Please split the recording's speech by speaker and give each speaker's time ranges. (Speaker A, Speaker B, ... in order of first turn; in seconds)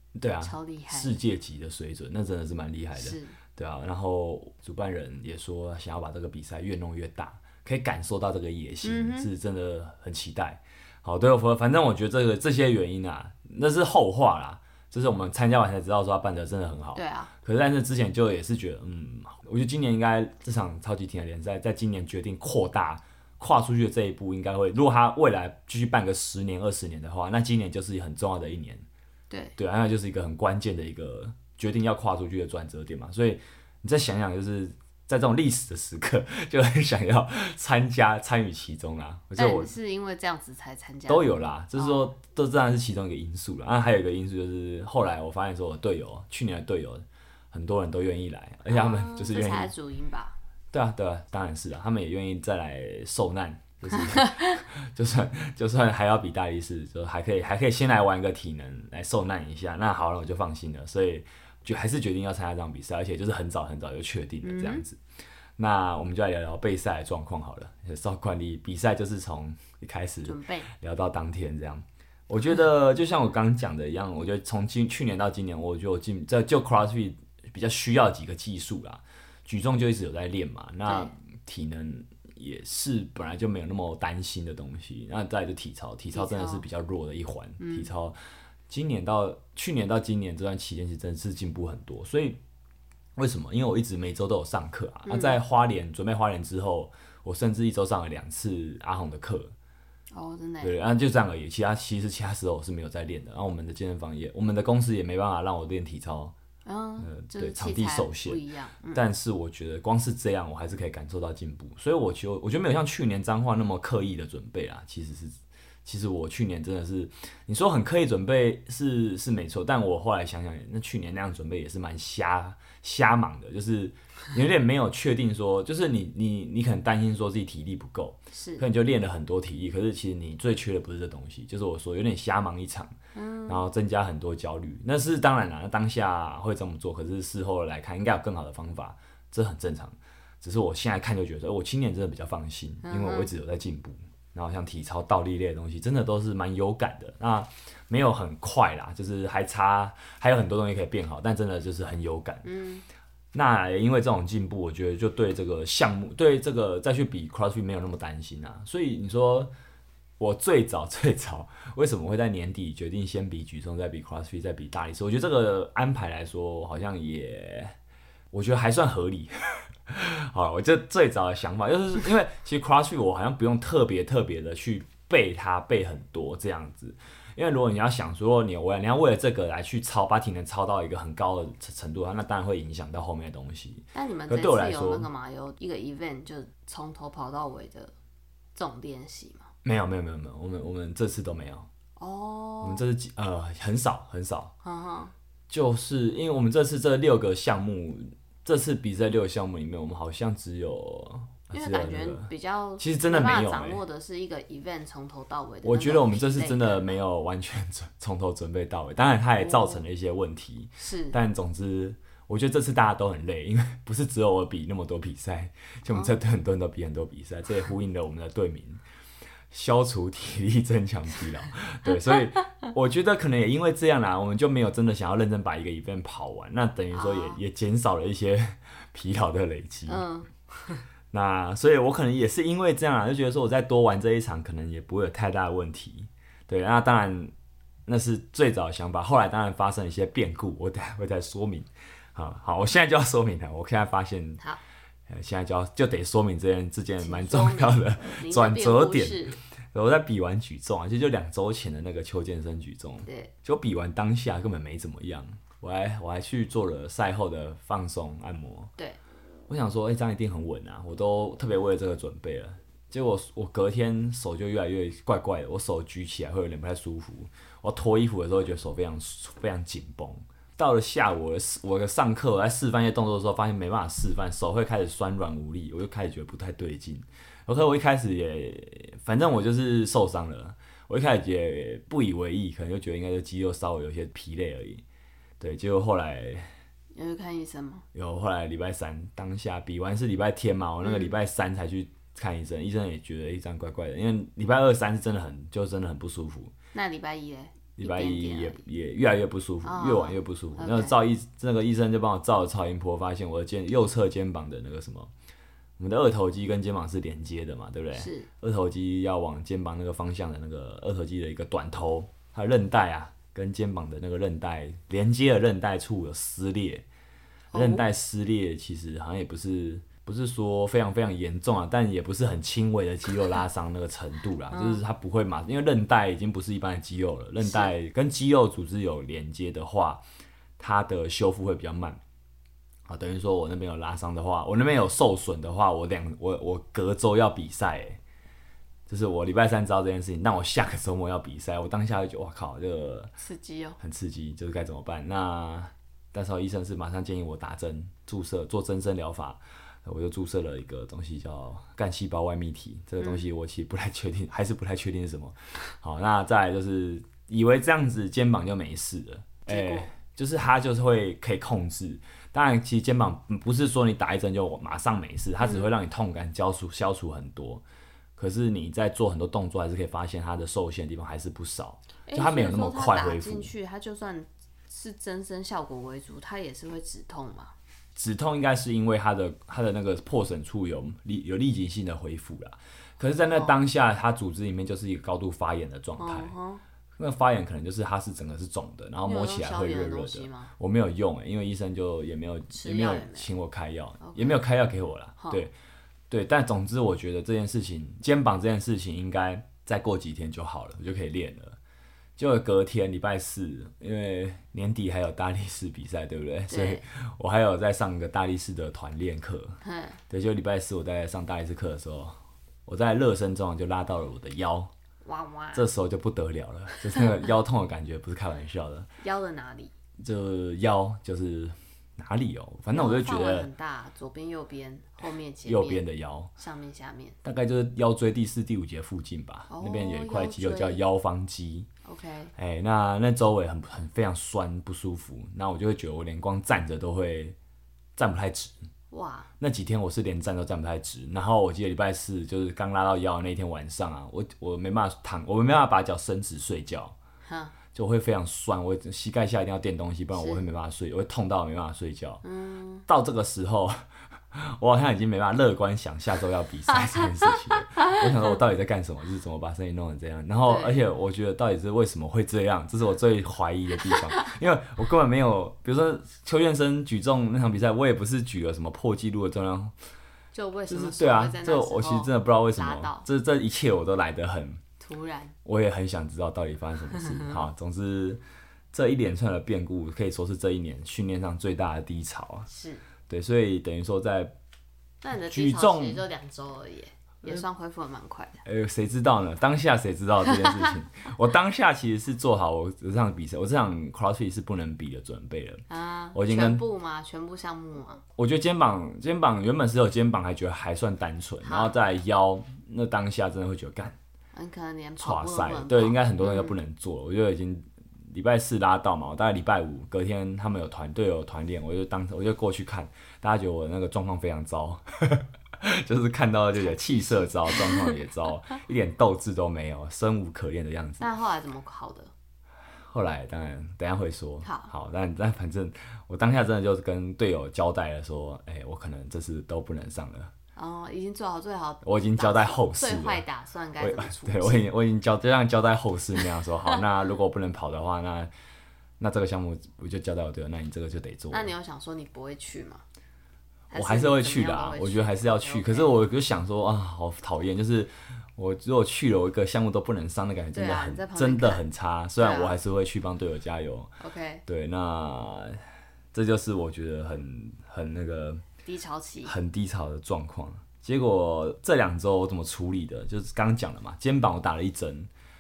Speaker A: 0.1-28.9, 29.6-39.7, 41.1-49.7, 50.7-65.0, 65.6-88.2, 88.7-92.4, 93.2-99.5, 100.6-106.3, 107.0-108.4, 108.9-132.9, 133.5-152.5, 153.3-159.5, 160.2-167.8, 168.3-185.1, 189.6-191.7, 192.6-194.5, 195.5-203.8, 205.6-218.8, 219.5-230.0, 231.1-237.3, 237.8-244.4, 245.1-258.7, 259.5-284.8, 285.4-286.5, 287.9-296.5, 297.8-305.1, 305.8-316.8, 317.5-330.0, 330.6-332.0, 332.9-338.0, 338.9-343.1, 343.8-367.6, 368.2-373.5, 377.9-386.3, 387.0-395.5, 396.1-401.6, 402.2-414.7, 415.5-418.9, 420.0-423.5, 425.4-426.3, 427.2-431.7, 432.4-437.4, 437.9-438.5, 439.4-446.9, 447.7-452.2, 452.9-469.7, 470.7-474.6, 475.4-478.2, 478.7-482.5, 483.1-484.3, 485.2-486.0, 488.4-495.6, 496.1-496.6, 498.2-504.0, 505.0-521.1, 522.9-530.3, 531.8-533.2, 533.8-538.3, 539.0-541.5, 543.7-553.9, 554.5-555.6, 556.1-558.4, 559.2-565.1
Speaker B: 0.4-1.2, 3.0-3.4, 8.8-9.3, 16.9-17.3, 29.3-29.5, 39.4-42.0, 48.7-50.4, 64.4-64.8, 70.2-70.7, 80.8-81.1, 86.1-86.6, 87.6-87.9, 95.0-95.4, 100.1-100.8, 106.6-109.0, 128.3-128.6, 133.1-133.6, 142.8-143.3, 152.4-152.8, 183.9-187.9, 188.5-189.5, 192.0-192.8, 194.6-195.1, 201.5-206.8, 209.3-209.8, 210.8-211.2, 215.9-216.2, 226.9-227.4, 229.8-230.8, 247.0-249.4, 253.0-253.3, 286.9-287.8, 290.8-291.1, 296.7-298.6, 299.6-300.9, 307.9-308.3, 317.5-317.9, 324.5-324.8, 327.4-327.7, 343.2-343.8, 353.0-353.2, 359.4-359.9, 365.4-365.7, 372.1-377.5, 383.2-383.6, 386.0-386.6, 389.0-390.5, 392.5-393.3, 394.0-394.4, 395.2-395.4, 406.5-406.8, 409.6-410.0, 415.0-415.6, 419.0-419.7, 422.7-425.8, 426.4-427.2, 429.5-430.8, 431.8-432.3, 438.9-439.3, 447.2-447.5, 450.1-450.4, 452.2-452.9, 460.4-460.8, 470.3-473.1, 474.8-475.3, 482.5-482.8, 485.0-488.4, 495.7-498.0, 501.4-501.7, 504.3-506.6, 516.6-518.0, 521.0-522.1, 524.4-524.7, 530.5-534.6, 541.3-542.8, 543.7-546.0, 550.5-551.6, 552.2-552.5, 554.0-554.4, 558.6-559.3